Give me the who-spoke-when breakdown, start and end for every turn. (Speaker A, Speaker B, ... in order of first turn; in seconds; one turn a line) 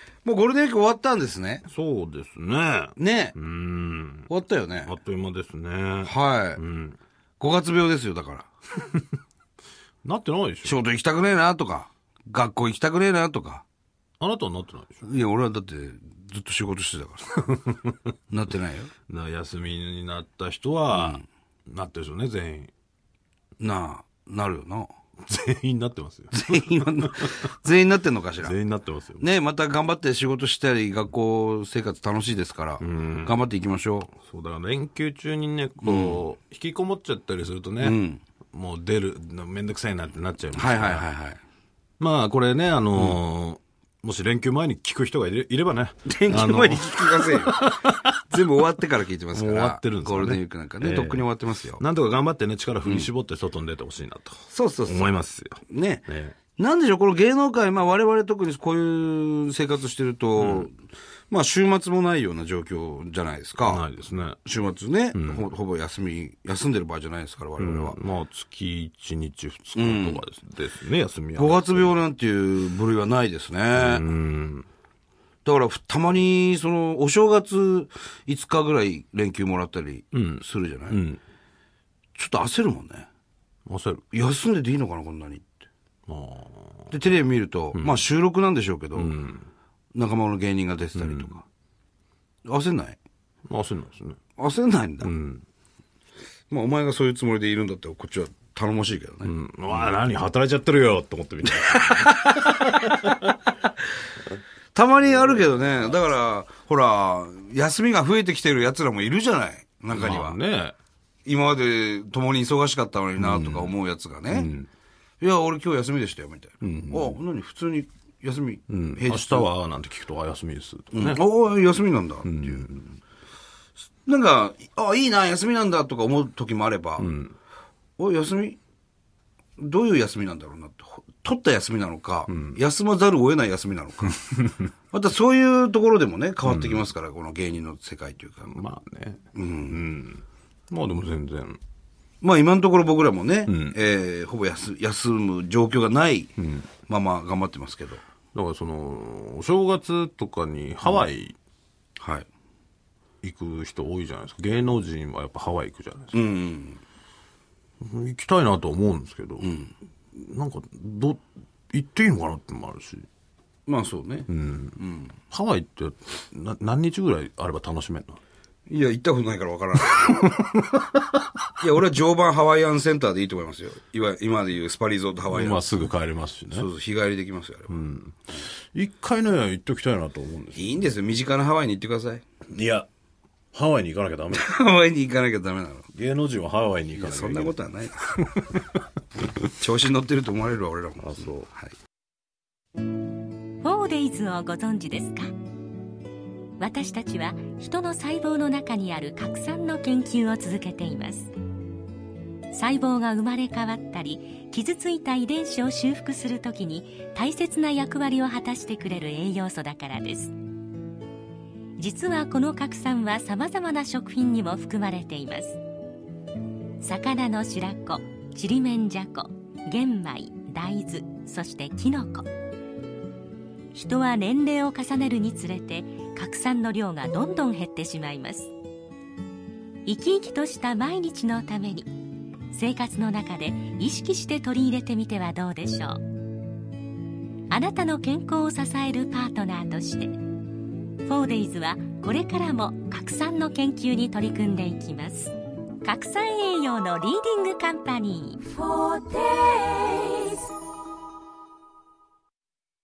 Speaker A: 0.2-1.6
Speaker B: 1.6-4.3
Speaker A: 3.0-3.4
Speaker A: 4.3-4.9
Speaker B: 4.8-7.0
Speaker A: 6.0-6.6
Speaker A: 7.4-8.5
Speaker B: 10.0-10.7
Speaker A: 10.6-13.6
Speaker B: 14.2-15.0
Speaker A: 15.0-17.4
Speaker B: 17.5-17.9
Speaker A: 18.3-18.9
Speaker B: 19.1-22.7
Speaker A: 20.9-21.2
Speaker A: 23.6-24.9
Speaker B: 25.2-27.4
Speaker A: 26.3-28.6
Speaker B: 28.4-29.2
Speaker A: 29.2-34.1
Speaker B: 32.8-33.4
Speaker B: 34.2-38.0
Speaker A: 35.8-36.2
Speaker A: 37.8-38.2
Speaker B: 38.5-41.1
Speaker A: 40.5-41.4
Speaker B: 42.0-48.4
Speaker A: 46.1-47.6
Speaker A: 48.3-51.8
Speaker B: 49.3-56.4
Speaker A: 52.8-53.1
Speaker A: 54.5-55.1
Speaker A: 55.7-60.8
Speaker B: 60.4-60.7
Speaker A: 61.3-63.9
Speaker B: 63.6-64.4
Speaker A: 64.4-68.0
Speaker B: 65.1-65.4
Speaker B: 67.6-72.0
Speaker A: 69.8-70.2
Speaker A: 71.4-74.0
Speaker B: 73.7-74.7
Speaker A: 75.5-81.0
Speaker B: 80.1-81.2
Speaker A: 82.2-83.1
Speaker B: 83.7-84.0
Speaker A: 84.1-85.5
Speaker B: 86.1-86.9
Speaker A: 86.9-89.1
Speaker B: 87.8-88.0
Speaker B: 89.0-89.5
Speaker A: 89.9-91.5
Speaker B: 91.0-91.3
Speaker A: 92.5-93.0
Speaker B: 93.5-94.2
Speaker A: 94.4-95.1
Speaker B: 95.0-95.4
Speaker A: 96.5-99.9
Speaker B: 99.2-103.2
Speaker A: 101.5-103.2
Speaker A: 104.7-110.4
Speaker B: 109.9-110.8
Speaker A: 111.3-114.5
Speaker B: 113.2-113.7
Speaker B: 114.3-114.7
Speaker A: 115.2-119.5
Speaker B: 116.6-117.2
Speaker B: 118.7-121.2
Speaker A: 120.9-122.7
Speaker B: 122.2-122.9
Speaker A: 124.1-127.1
Speaker B: 127.0-127.3
Speaker A: 128.0-128.6
Speaker A: 129.6-134.3
Speaker B: 132.3-132.6
Speaker B: 134.2-134.6
Speaker A: 134.9-138.6
Speaker B: 136.4-136.8
Speaker B: 138.5-141.6
Speaker A: 139.3-139.9
Speaker A: 142.2-146.3
Speaker B: 143.5-143.8
Speaker B: 146.4-146.7
Speaker A: 146.9-148.0
Speaker B: 148.3-151.3
Speaker A: 152.0-152.3
Speaker B: 153.2-156.1
Speaker A: 156.1-156.8
Speaker B: 157.8-159.5
Speaker A: 159.4-159.7
Speaker B: 160.1-163.1
Speaker A: 163.7-165.1
Speaker B: 164.3-164.8
Speaker B: 165.3-168.2
Speaker A: 168.7-170.3
Speaker B: 170.0-171.2
Speaker A: 171.6-175.8
Speaker B: 175.3-176.7
Speaker A: 176.5-177.8
Speaker B: 177.7-178.2
Speaker B: 178.7-180.8
Speaker A: 180.6-182.2
Speaker B: 182.5-182.9
Speaker B: 183.5-184.5
Speaker A: 184.3-185.9
Speaker B: 185.9-187.6
Speaker A: 186.9-188.2
Speaker B: 188.2-188.6
Speaker A: 189.5-191.7
Speaker B: 191.0-191.5
Speaker C: 193.6-195.3
Speaker C: 196.6-201.3
Speaker C: 202.5-210.3
Speaker C: 211.8-215.6
Speaker C: 216.8-222.3
Speaker C: 223.7-228.5
Speaker C: 229.9-231.9
Speaker C: 232.5-236.0
Speaker C: 237.5-240.1
Speaker C: 241.1-250.4